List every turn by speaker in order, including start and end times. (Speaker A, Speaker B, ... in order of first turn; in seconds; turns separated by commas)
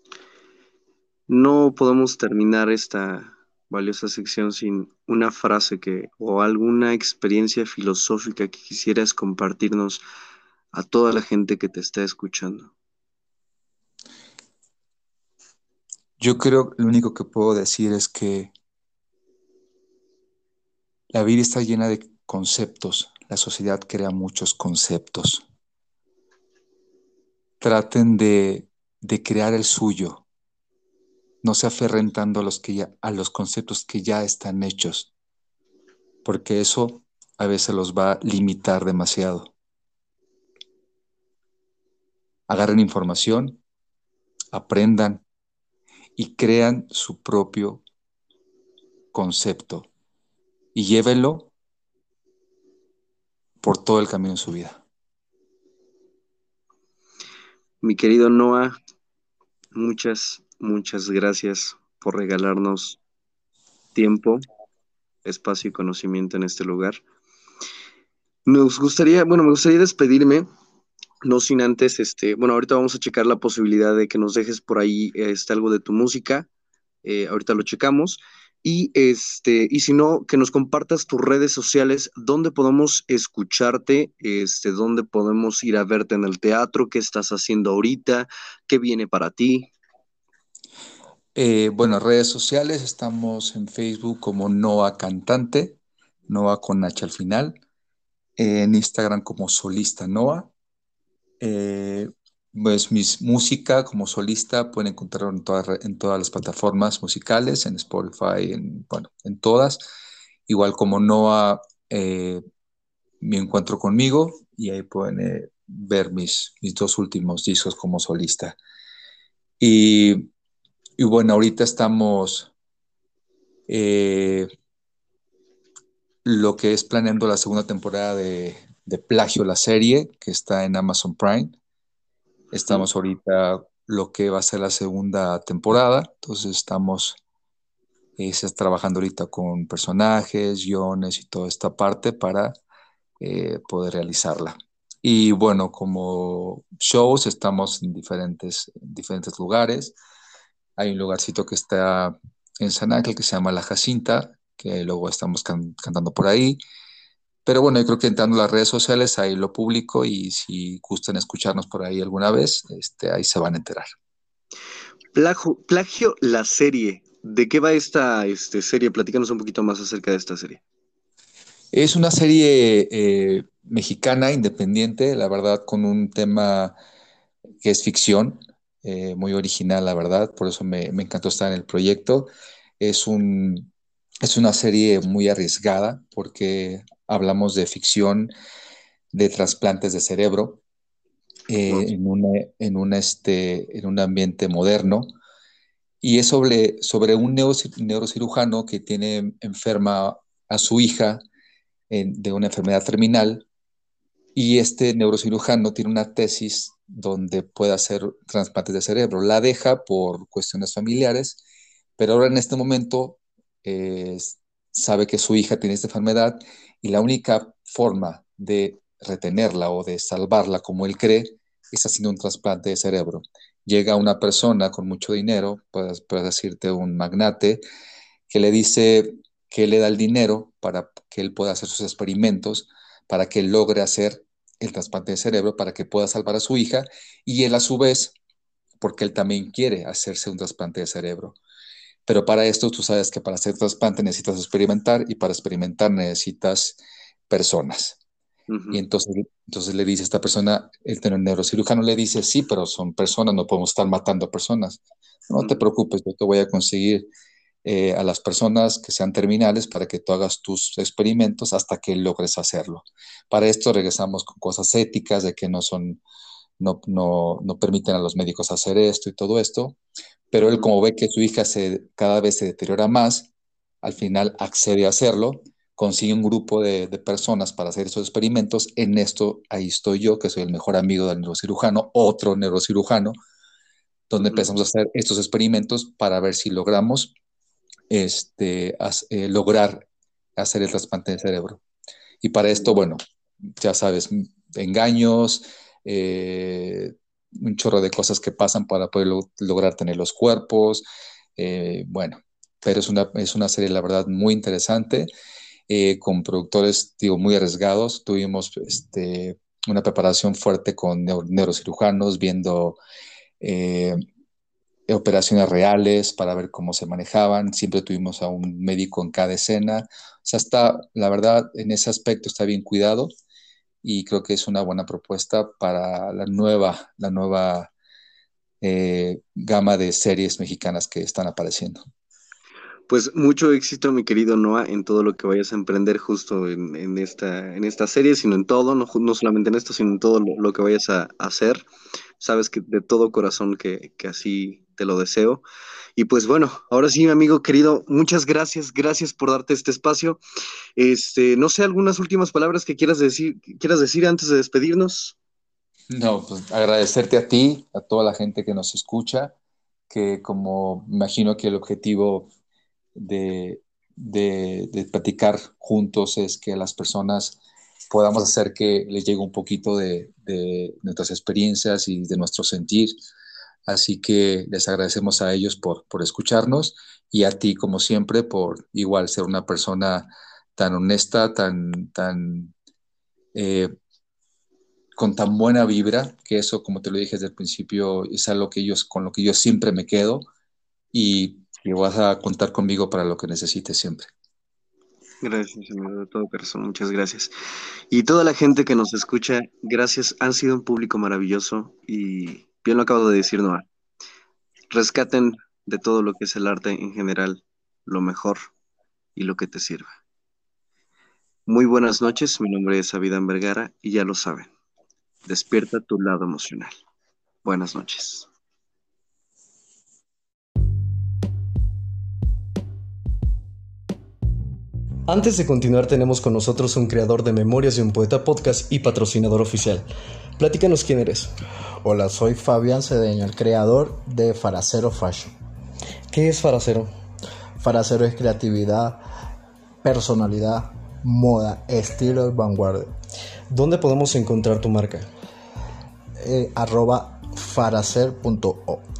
Speaker A: 1.3-10.0, Speaker A: 10.7-12.7, Speaker B: 16.2-18.5, Speaker B: 21.1-25.4, Speaker B: 27.6-30.2, Speaker B: 31.4-35.1, Speaker B: 36.2-39.5, Speaker B: 42.5-43.6, Speaker B: 44.5-45.2, Speaker B: 46.2-47.8, Speaker B: 49.1-49.9, Speaker B: 50.7-51.5, Speaker B: 53.6-54.8, Speaker A: 57.8-58.8, Speaker A: 59.7-63.0, Speaker A: 64.0-64.5, Speaker A: 65.2-67.0, Speaker A: 68.5-70.5, Speaker A: 71.2-76.5, Speaker A: 77.0-89.7, Speaker B: 91.3-97.5, Speaker B: 98.4-100.5, Speaker B: 101.4-109.8, Speaker B: 110.5-112.4, Speaker B: 113.2-118.6, Speaker B: 119.6-120.3, Speaker B: 121.0-122.5, Speaker B: 123.7-124.5, Speaker B: 126.2-131.6, Speaker B: 132.5-137.2, Speaker B: 138.2-142.6, Speaker B: 143.2-149.9, Speaker B: 150.8-156.6, Speaker B: 157.4-163.9, Speaker A: 165.2-170.6, Speaker B: 171.7-176.8, Speaker B: 177.6-183.7, Speaker B: 184.2-188.3, Speaker B: 189.1-190.6, Speaker B: 191.5-195.1, Speaker B: 196.0-201.2, Speaker B: 201.9-203.5, Speaker B: 204.3-211.4, Speaker B: 212.0-227.6, Speaker B: 228.3-238.1, Speaker B: 238.8-241.4, Speaker B: 242.1-246.8, Speaker B: 247.3-248.0, Speaker A: 248.5-248.8, Speaker B: 248.7-257.1, Speaker B: 257.6-266.0, Speaker B: 266.6-269.8, Speaker B: 270.3-273.3, Speaker B: 273.8-283.1, Speaker B: 284.1-287.1, Speaker B: 287.9-289.9, Speaker B: 290.4-291.6, Speaker B: 292.2-293.0, Speaker B: 293.6-300.8, Speaker B: 301.4-305.1, Speaker B: 305.7-312.8, Speaker B: 313.4-314.0, Speaker B: 314.9-323.1, Speaker B: 323.8-327.7, Speaker B: 328.6-331.8, Speaker A: 332.9-341.6, Speaker A: 342.2-345.4, Speaker A: 346.0-350.2, Speaker A: 350.8-355.2, Speaker B: 355.9-359.3, Speaker B: 359.9-362.3, Speaker B: 362.9-367.4, Speaker B: 367.9-373.0, Speaker B: 373.7-382.5, Speaker B: 383.3-383.7, Speaker B: 385.0-390.3, Speaker B: 390.9-394.1, Speaker A: 395.2-397.3, Speaker A: 397.9-403.6, Speaker A: 404.7-408.5, Speaker A: 409.1-409.9, Speaker A: 411.5-414.5, Speaker A: 415.3-416.7, Speaker A: 417.4-418.3, Speaker C: 425.1-429.9, Speaker C: 430.4-431.3, Speaker D: 431.8-435.3, Speaker C: 436.1-436.9, Speaker D: 437.6-439.0, Speaker D: 439.8-442.9, Speaker C: 443.5-445.1, Speaker D: 446.2-448.8